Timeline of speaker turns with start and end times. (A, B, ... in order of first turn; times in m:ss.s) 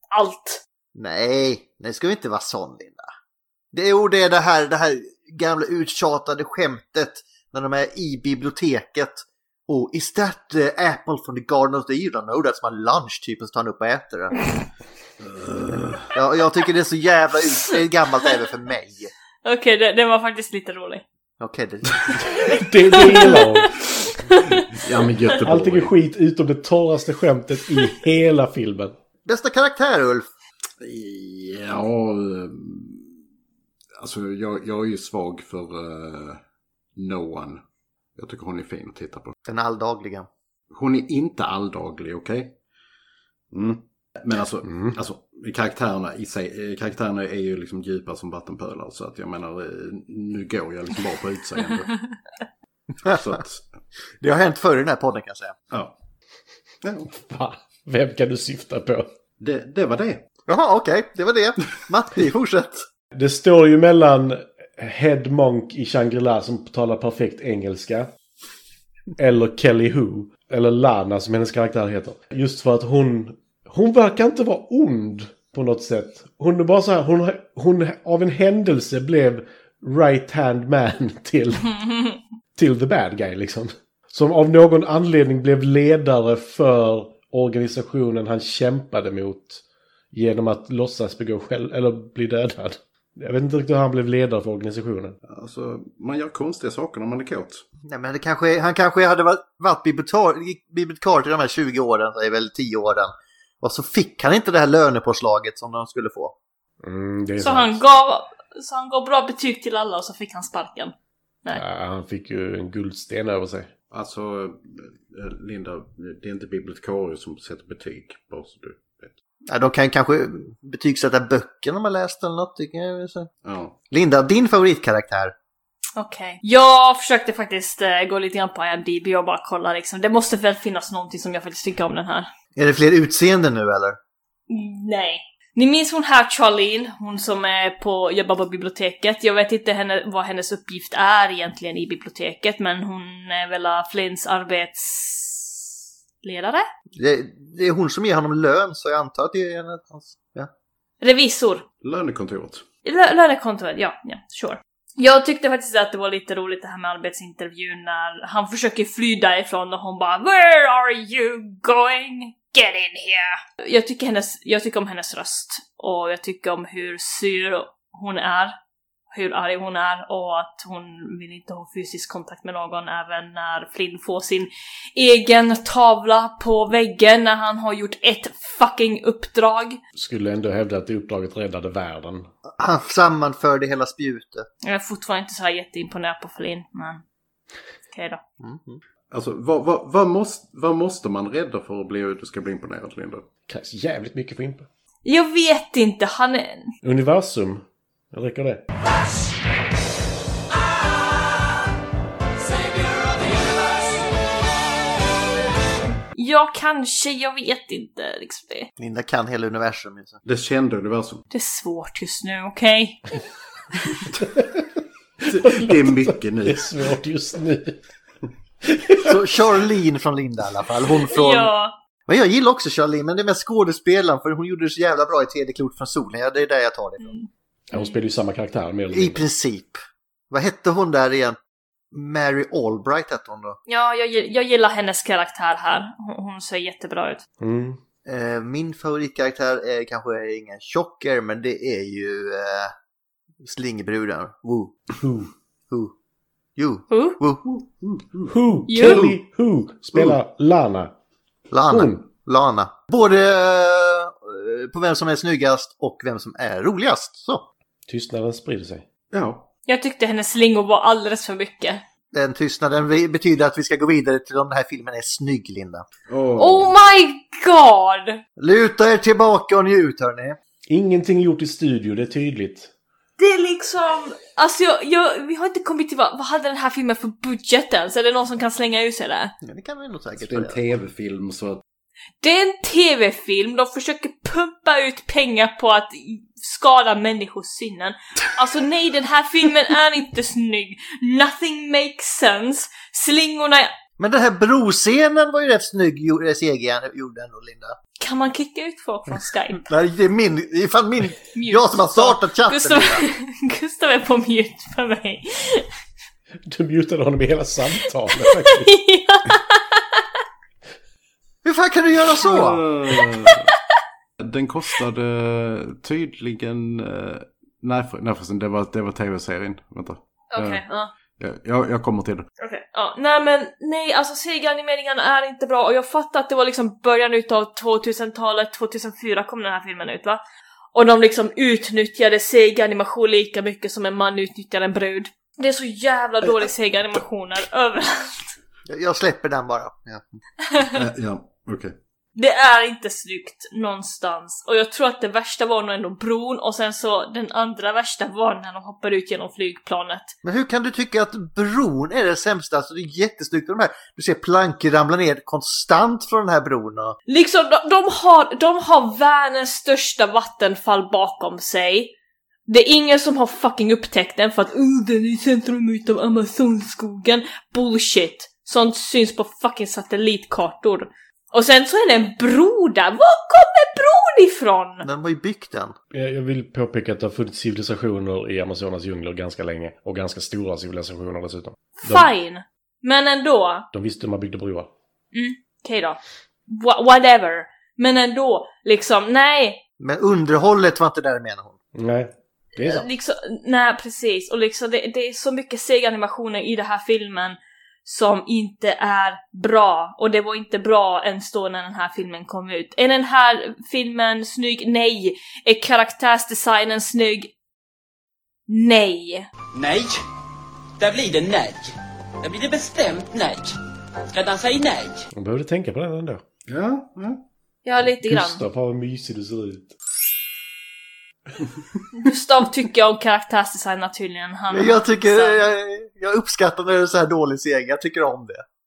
0:00.1-0:00.6 A
0:01.0-0:03.1 B
0:03.7-0:14.4 B
0:15.2-0:16.1 C
0:16.1-0:19.1 B
0:19.4-0:21.0 A
0:21.4-0:22.5 B
0:22.4-0:23.7 D
0:23.0-0:23.6 A
0:24.3-0:24.7 A
0:24.7-0:25.9 C
0:25.4-0:28.9 D
0:29.3-0:30.3 B
0:30.8-0:33.2 C
0:34.0-0:36.4 C
0:37.0-0:37.6 C
0:38.2-0:39.3 C
0:39.5-0:40.3 B
0:40.7-0:42.6 C
0:43.5-0:51.9 C
0:44.6-0:45.0 D
0:53.1-0:53.6 C
0:54.2-0:55.6 B
0:56.8-0:57.1 C
0:57.1-0:59.1 D
0:59.4-1:00.2 C
1:00.5-1:02.8 B
1:03.1-1:08.1 D
1:09.2-1:21.7 D
1:21.8-1:22.2 A
1:22.6-1:29.6 D
1:30.1-1:35.2 D
1:35.2-1:37.6 C
1:37.9-1:46.4 B
1:46.8-1:47.8 D
1:47.4-1:50.9 A
1:51.5-1:53.7 D
1:53.9-1:59.1 C
1:59.5-2:03.3 B
2:03.4-2:03.8 C
2:03.9-2:05.3 B
2:06.0-2:12.3 A
2:12.6-2:14.0 B
2:14.5-2:25.7 A
2:26.2-2:26.6 A
2:27.0-2:30.5 B
2:31.0-2:31.6 A
2:31.8-2:32.6 C
2:32.8-2:48.6 A
2:49.1-2:59.8 A
3:00.0-3:02.3 D
3:02.6-3:04.5 B
3:04.6-3:07.0 A
3:07.9-3:08.2 A
3:08.4-3:08.8 B
3:09.1-3:13.3 C
3:13.5-3:14.7 D
3:15.0-3:16.7 A
3:16.8-3:18.6 D
3:26.2-3:28.7 A
3:28.8-3:30.2 B
3:30.2-3:31.2 C
3:31.3-3:33.0 A
3:34.2-3:34.7 D
3:35.2-3:36.7 C
3:35.3-3:37.8 D
3:38.6-3:39.1 D
3:39.0-3:41.5 B
3:41.1-3:41.7 A
3:42.1-3:47.1 B
3:47.0-3:47.8 A
3:47.7-3:49.2 D
3:48.9-3:51.4 B
3:51.9-3:53.6 B
3:53.7-3:57.2 A
3:57.4-3:57.8 D
3:58.1-4:02.7 B
4:03.4-4:04.8 B
4:05.0-4:05.3 D
4:06.6-4:07.5 B
4:06.9-4:07.2 A
4:07.5-4:09.2 C
4:08.3-4:10.9 D
4:08.7-4:09.0 A
4:11.5-4:17.4 B
4:11.7-4:12.0 D
4:17.9-4:18.8 D
4:19.1-4:19.5 C
4:19.7-4:21.8 A
4:22.1-4:25.8 B
4:26.1-4:26.7 C
4:26.4-4:28.2 A
4:28.4-4:30.4 B
4:30.7-4:32.7 D
4:33.2-4:39.3 A
4:39.4-4:40.6 B
4:40.2-4:41.6 C
4:42.2-4:53.7 A
4:54.0-4:57.8 B
4:58.0-4:59.6 A
4:59.7-5:03.0 B
5:01.3-5:05.7 A
5:06.5-5:08.7 D
5:08.3-5:09.8 A
5:11.4-5:12.6 B
5:12.2-5:13.5 C
5:14.2-5:20.6 C
5:20.3-5:20.9 A
5:21.2-5:22.3 C
5:22.4-5:30.2 A
5:30.7-5:38.3 A
5:38.7-5:40.0 B
5:40.7-5:41.7 C
5:42.2-5:50.2 A
5:50.2-5:57.0 B
5:57.1-6:01.9 A
6:02.5-6:14.9 A
6:14.8-6:15.7 B
6:15.9-6:22.1 D
6:21.8-6:23.7 A
6:23.7-6:24.7 D
6:25.1-6:29.6 A
6:29.8-6:31.6 B
6:31.8-6:32.8 D
6:32.6-6:47.3 A
6:48.5-6:49.3 A
6:49.6-6:50.0 E
6:50.8-6:53.6 E
6:54.1-6:55.1 E
6:55.1-6:56.2 D
6:56.5-6:57.2 C
6:57.6-6:58.4 A
6:58.1-6:59.7 D
7:01.9-7:05.5 A
7:04.5-7:08.4 B